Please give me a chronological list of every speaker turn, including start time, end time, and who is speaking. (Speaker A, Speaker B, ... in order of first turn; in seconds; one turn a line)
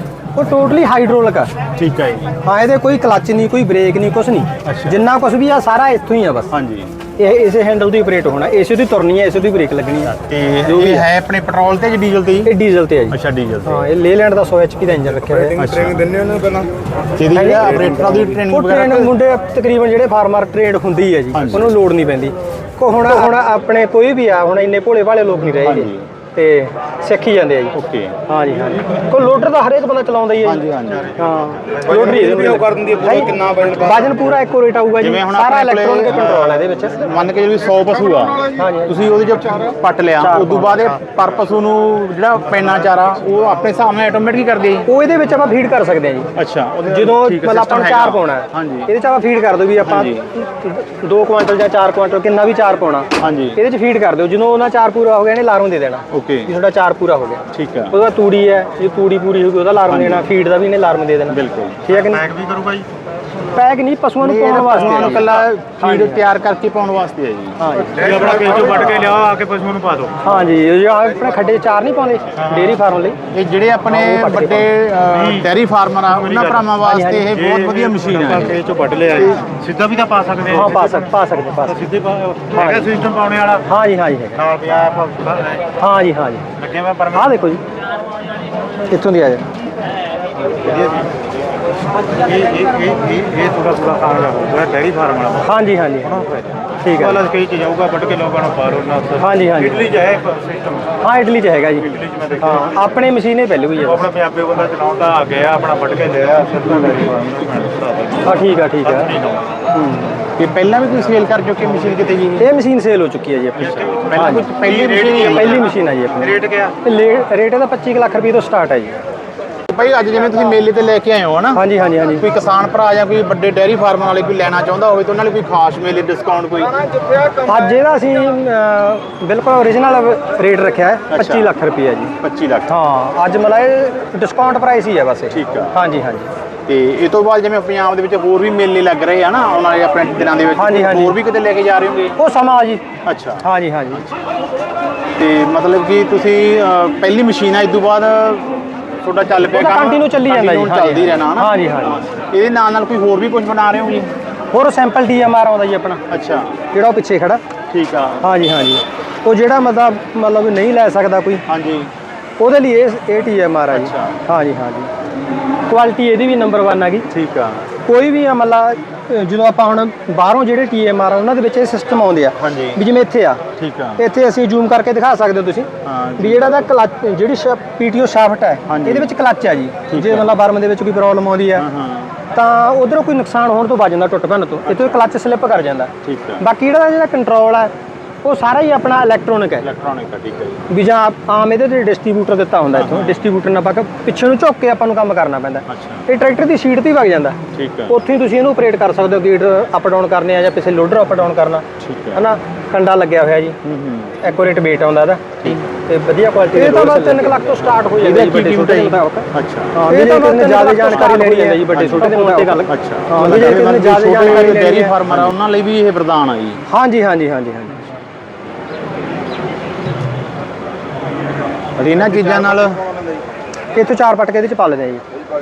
Speaker A: 0.3-1.5
Speaker B: 1.8-2.4
Speaker A: 2.4-6.5
Speaker B: 4.6-5.0
Speaker B: 6.5-6.9
Speaker A: 7.2-11.1
Speaker B: 10.2-12.5
Speaker A: 12.4-15.6
Speaker B: 13.1-13.8
Speaker B: 15.6-16.5
Speaker B: 17.1-19.2
Speaker A: 17.3-27.7
Speaker B: 21.3-21.7
Speaker B: 25.6-26.1
Speaker B: 27.7-28.2
Speaker A: 28.2-30.6
Speaker B: 30.4-33.8
Speaker A: 31.2-37.0
Speaker B: 35.0-44.9
Speaker A: 38.5-38.9
Speaker A: 40.2-41.0
Speaker A: 44.9-46.3
Speaker B: 46.3-48.9
Speaker A: 46.9-62.3
Speaker B: 49.8-50.2
Speaker B: 53.2-53.6
Speaker B: 56.1-56.5
Speaker B: 57.5-57.9
Speaker B: 59.9-60.3
Speaker B: 61.3-62.0
Speaker C: 62.1-62.9
Speaker A: 63.5-66.2
Speaker B: 64.2-69.3
Speaker A: 67.6-68.5
Speaker C: 68.1-70.2
Speaker A: 70.2-73.2
Speaker B: 72.5-72.7
Speaker B: 73.3-79.6
Speaker A: 73.9-74.7
Speaker C: 75.2-75.4
Speaker C: 76.2-76.6
Speaker A: 76.8-77.5
Speaker C: 77.3-81.1
Speaker A: 80.5-81.9
Speaker C: 81.7-83.7
Speaker A: 82.5-82.9
Speaker A: 83.6-84.4
Speaker C: 84.3-85.7
Speaker A: 85.8-86.5
Speaker B: 86.6-86.9
Speaker C: 86.6-87.3
Speaker A: 87.1-87.6
Speaker A: 88.9-89.5
Speaker C: 90.5-91.1
Speaker C: 92.1-101.0
Speaker A: 95.4-96.2
Speaker A: 96.8-97.2
Speaker A: 99.2-100.0
Speaker A: 101.0-104.1
Speaker C: 101.8-102.9
Speaker C: 103.9-109.4
Speaker A: 108.2-109.2
Speaker A: 109.7-110.2
Speaker B: 110.3-112.5
Speaker A: 112.4-119.0
Speaker B: 113.6-115.7
Speaker C: 114.8-115.3
Speaker C: 116.2-116.8
Speaker B: 119.7-126.8
Speaker A: 121.5-122.2
Speaker A: 127.4-132.1
Speaker B: 131.1-131.5
Speaker B: 132.2-132.7
Speaker A: 132.7-136.3
Speaker B: 135.3-135.7
Speaker B: 136.7-142.2
Speaker A: 140.6-141.2
Speaker A: 142.2-142.8
Speaker B: 143.0-144.1
Speaker A: 143.4-144.0
Speaker B: 145.2-154.1
Speaker A: 149.5-152.0
Speaker A: 154.5-156.0
Speaker B: 156.1-156.6
Speaker A: 156.7-157.4
Speaker B: 157.7-158.3
Speaker A: 158.2-161.4
Speaker B: 161.5-161.9
Speaker A: 162.4-164.9
Speaker B: 163.7-164.2
Speaker A: 165.7-167.1
Speaker B: 167.1-167.7
Speaker A: 167.8-173.4
Speaker B: 172.4-172.8
Speaker B: 173.6-174.0
Speaker A: 174.0-181.7
Speaker B: 175.8-176.7
Speaker B: 178.7-179.1
Speaker B: 179.9-180.4
Speaker B: 181.5-182.1
Speaker A: 182.3-187.7
Speaker B: 184.7-185.0
Speaker B: 186.0-186.4
Speaker A: 188.2-189.7
Speaker B: 189.6-190.6
Speaker A: 190.7-203.6
Speaker B: 192.7-193.2
Speaker B: 195.7-196.1
Speaker B: 197.5-197.9
Speaker B: 201.8-202.2
Speaker B: 203.6-204.2
Speaker A: 204.2-209.3
Speaker C: 206.5-207.5
Speaker B: 206.7-207.2
Speaker B: 207.9-209.8
Speaker C: 209.8-212.6
Speaker A: 209.8-215.2
Speaker B: 210.9-216.6
Speaker A: 216.7-217.8
Speaker B: 221.8-222.9
Speaker A: 223.7-225.0